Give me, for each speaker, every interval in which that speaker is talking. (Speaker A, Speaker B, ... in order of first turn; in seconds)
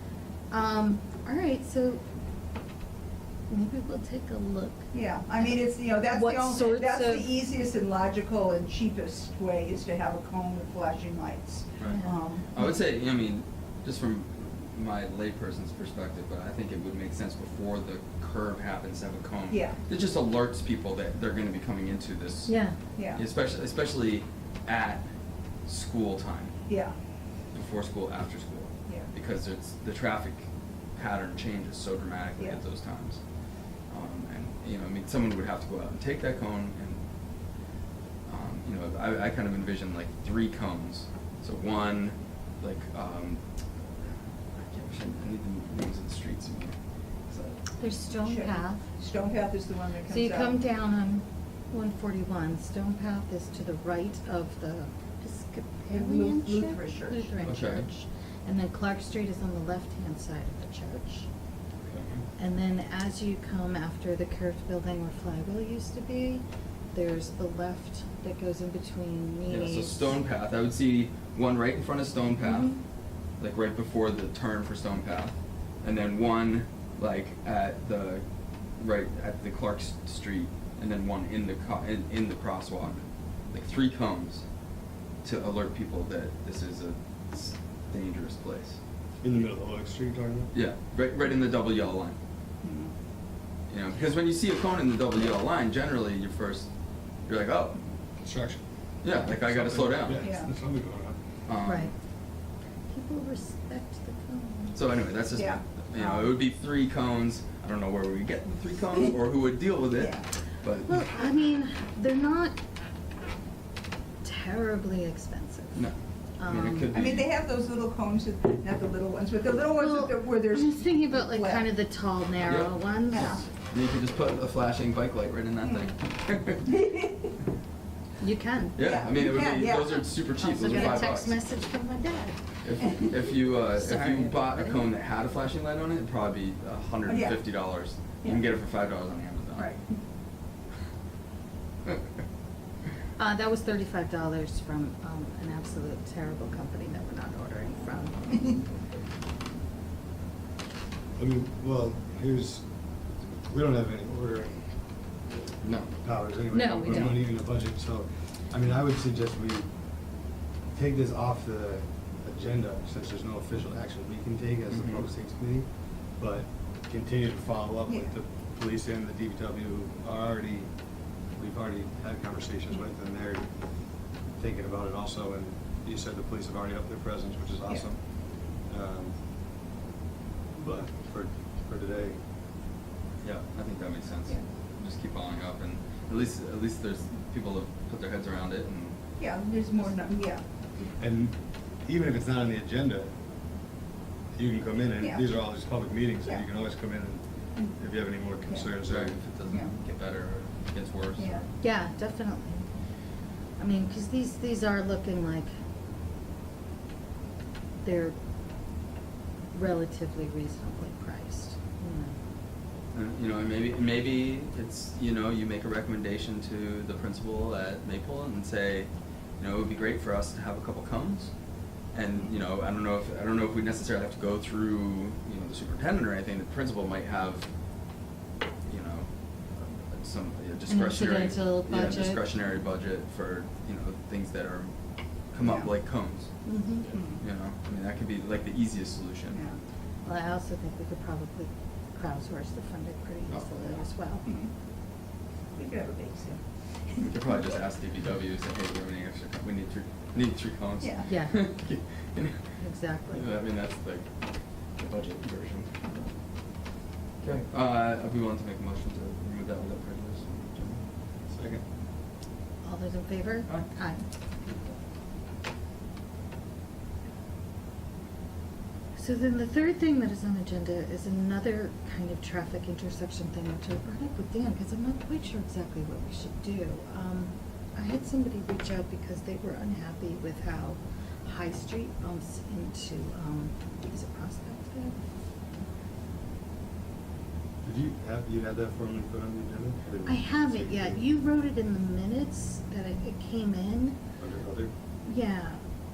Speaker A: 0.5-2.0, 3.5-7.3, 11.8-12.8, 22.4-22.8, 47.8-48.8, 50.1-61.3, 62.4-70.2, 101.6-101.9, 102.9-104.8, 110.8-112.6, 114.2-117.0, 119.7-123.4, 128.2-128.8, 130.4-132.8, 133.7-134.8, 143.2-148.7, 156.5-157.2, 201.6-202.7, 203.6-205.5, 207.8-208.2, 209.5-212.2, 230.7-232.2, 236.4-236.9, 240.0-244.2, 251.1-251.6, 252.6-253.2, 262.6-264.1, 268.9-284.9, 290.0-294.0, 295.1-295.6
Speaker B: 4.9-12.5, 19.5-19.8, 22.9-23.2, 26.7-26.9, 48.2-50.5, 55.9-57.3, 92.6-92.9, 100.2-100.5, 105.3-106.3, 110.0-110.3, 116.9-121.7, 123.1-123.5, 125.6-125.9, 126.7-127.2, 128.8-131.0, 137.1-137.7, 139.5-140.0, 167.9-168.1, 189.2-190.9, 195.0-195.3, 199.5-199.7, 201.2-201.4, 235.4-235.7, 236.9-237.2, 239.3-239.6, 244.2-244.5, 245.5-247.6, 250.8-251.1
Speaker C: 11.8-22.6, 23.1-25.1, 25.6-26.5, 27.5-33.2, 33.9-37.0, 38.2-46.8, 47.3-47.7, 57.4-57.9, 61.8-62.2, 69.5-72.8, 73.4-78.2, 78.8-84.4, 85.2-88.8, 90.5-92.2, 93.7-96.7, 97.2-97.8, 99.0-100.3, 101.5-101.9, 104.7-110.9, 115.7-117.3, 122.4-126.7, 128.7-131.3, 132.6-139.7, 155.6-155.9, 164.7-165.0, 183.2-189.0, 198.8-201.5, 212.9-227.5, 228.6-234.7, 235.3-239.4, 243.3-243.8, 247.0-256.1, 257.2-260.9
Speaker D: 89.2-90.5, 98.2-101.2, 151.2-152.7, 153.5-154.7, 156.0-159.7, 160.7-170.7, 171.3-179.2, 180.6-182.2, 191.0-193.1, 194.3-199.2, 261.3-261.6, 287.6-291.0, 294.2-294.7